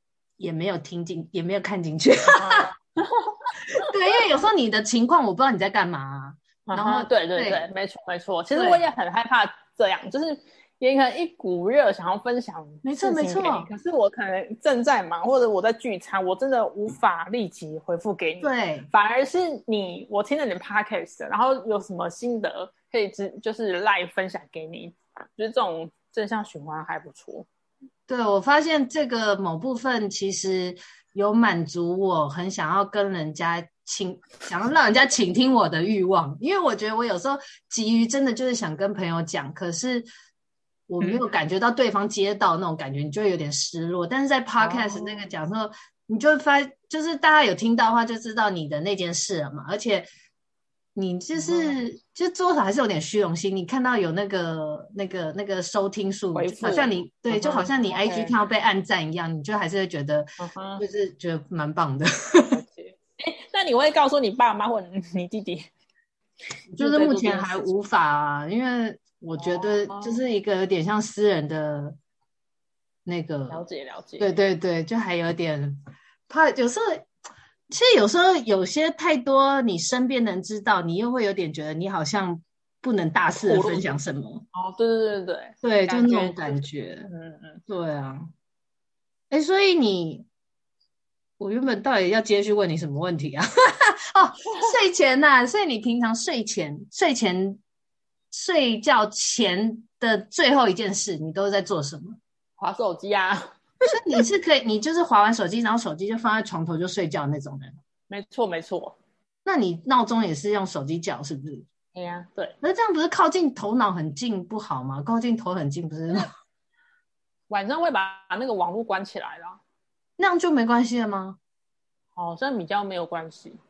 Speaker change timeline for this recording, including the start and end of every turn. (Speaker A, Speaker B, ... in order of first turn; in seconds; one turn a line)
Speaker A: 0.4-2.6
Speaker B: 2.3-3.9
Speaker A: 3.8-7.7
Speaker B: 6.7-27.5
Speaker A: 8.6-8.8
Speaker A: 12.8-13.7
Speaker A: 18.4-18.9
Speaker A: 28.1-40.1
Speaker A: 40.9-50.1
Speaker B: 44.6-45.2
Speaker A: 51.0-60.3
Speaker B: 51.3-51.8
Speaker B: 56.3-58.3
Speaker B: 60.4-60.8
Speaker A: 60.8-62.6
Speaker B: 62.5-65.7
Speaker A: 66.8-72.0
Speaker B: 66.8-67.7
Speaker B: 69.4-70.2
Speaker A: 73.1-73.6
Speaker B: 73.5-74.3
Speaker A: 74.2-77.1
Speaker A: 77.7-84.5
Speaker B: 83.4-83.9
Speaker B: 84.5-87.6
Speaker A: 85.6-87.1
Speaker A: 87.7-88.3
Speaker A: 89.3-90.3
Speaker A: 91.4-97.6
Speaker A: 98.3-102.2
Speaker B: 102.6-103.5
Speaker A: 103.9-107.8
Speaker B: 108.1-109.0
Speaker A: 109.5-111.7
Speaker B: 111.9-112.5
Speaker A: 112.6-116.3
Speaker B: 117.5-119.6
Speaker A: 120.2-121.4
Speaker B: 122.2-123.6